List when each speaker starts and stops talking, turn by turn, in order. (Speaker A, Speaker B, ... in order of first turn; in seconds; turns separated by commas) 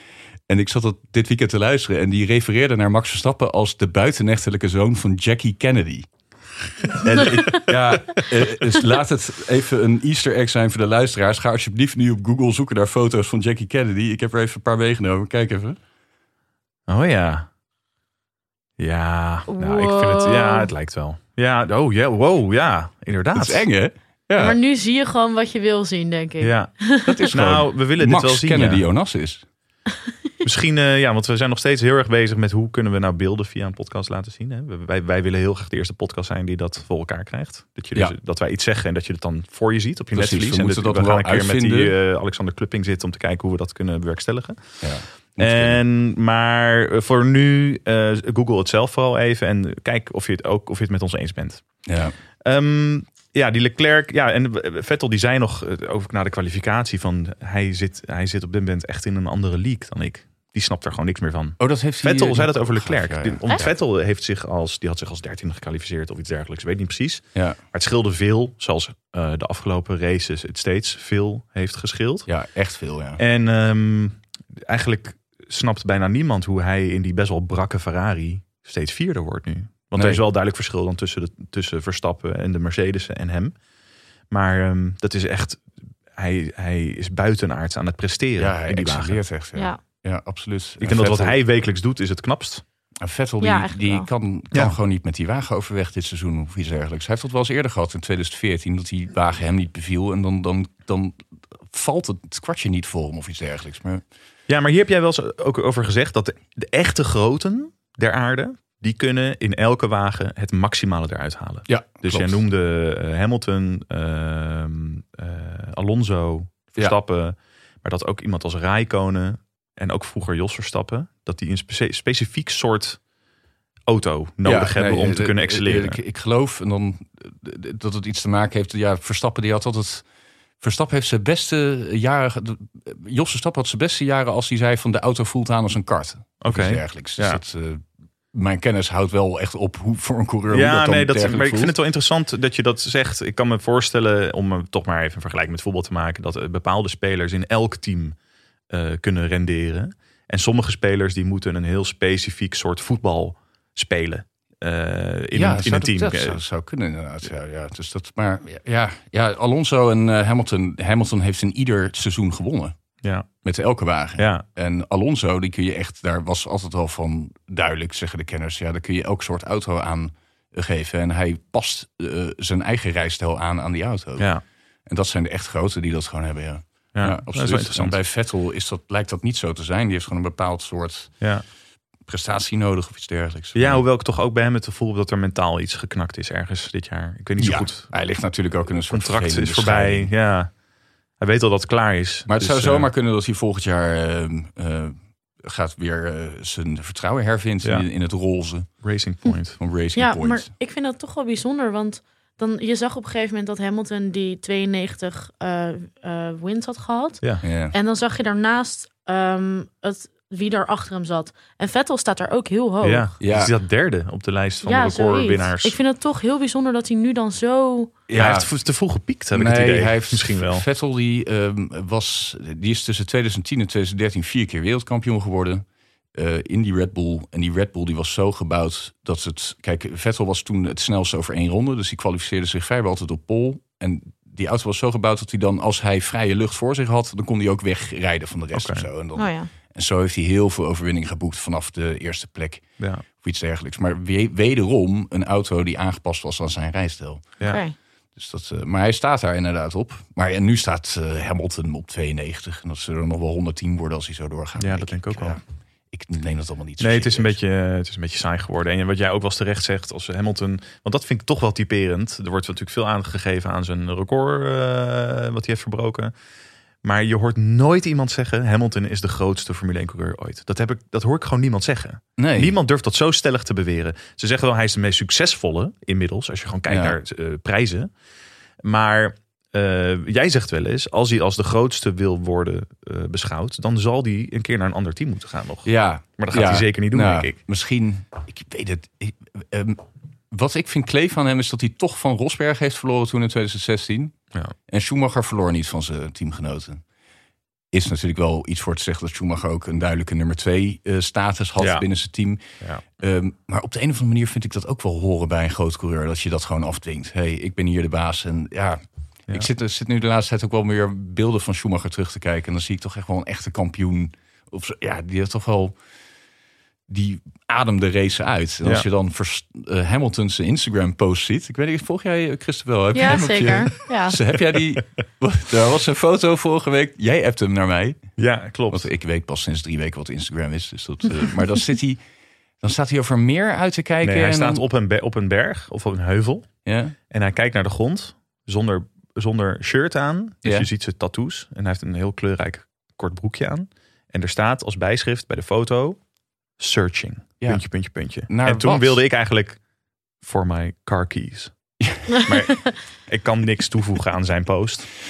Speaker A: 0.5-6.1, Speaker A: 6.9-15.8, Speaker B: 7.1-7.7, Speaker B: 16.9-17.5, Speaker B: 18.8-23.6, Speaker C: 19.5-20.7, Speaker A: 23.3-24.6, Speaker C: 24.4-27.3, Speaker B: 26.4-26.7, Speaker A: 27.0-29.4, Speaker B: 27.3-28.8, Speaker B: 30.4-51.8, Speaker A: 40.1-41.9, Speaker A: 44.8-45.8, Speaker A: 51.9-52.2, Speaker B: 52.4-72.3, Speaker A: 61.6-63.7, Speaker A: 72.3-73.2, Speaker B: 73.2-83.6, Speaker A: 80.0-80.2, Speaker B: 84.3-89.2, Speaker A: 88.4-91.4, Speaker B: 90.8-92.6, Speaker A: 93.0-101.2, Speaker C: 93.4-94.1, Speaker A: 101.7-104.0, Speaker B: 104.5-123.0, Speaker A: 111.7-112.4, Speaker B: 123.9-126.0, Speaker A: 124.4-130.1, Speaker A: 130.6-141.7, Speaker B: 136.4-137.4, Speaker B: 140.5-148.2, Speaker B: 148.7-156.4, Speaker A: 155.3-162.8, Speaker B: 163.0-163.3, Speaker A: 163.4-181.3, Speaker B: 164.2-164.4, Speaker B: 174.2-174.4, Speaker B: 176.9-178.0, Speaker B: 181.2-181.4, Speaker A: 182.0-183.8, Speaker B: 183.5-187.9, Speaker A: 187.4-190.1, Speaker B: 188.9-190.5, Speaker B: 191.2-192.9, Speaker A: 192.3-198.8, Speaker B: 198.8-199.6, Speaker A: 199.6-200.5, Speaker C: 199.9-213.1, Speaker A: 207.4-207.7, Speaker B: 212.8-215.8, Speaker A: 213.2-213.5, Speaker C: 214.6-217.9, Speaker A: 218.1-218.5, Speaker B: 218.1-220.6, Speaker A: 219.3-247.6, Speaker B: 238.5-238.9, Speaker C: 239.2-239.5, Speaker C: 247.5-247.8, Speaker A: 248.1-257.3, Speaker B: 254.6-255.4, Speaker B: 256.8-266.1, Speaker B: 266.8-277.9, Speaker A: 272.2-272.5, Speaker A: 276.7-277.0, Speaker B: 278.6-287.4, Speaker A: 285.6-296.8, Speaker A: 297.7-302.4, Speaker B: 301.6-301.8, Speaker A: 303.0-315.8, Speaker A: 316.9-328.2, Speaker C: 322.9-324.2, Speaker B: 328.2-328.9, Speaker A: 328.7-332.0, Speaker A: 332.6-334.6, Speaker B: 334.0-346.0, Speaker A: 336.6-336.9, Speaker B: 346.6-349.6, Speaker A: 347.4-349.0, Speaker B: 350.2-354.9, Speaker A: 351.8-352.1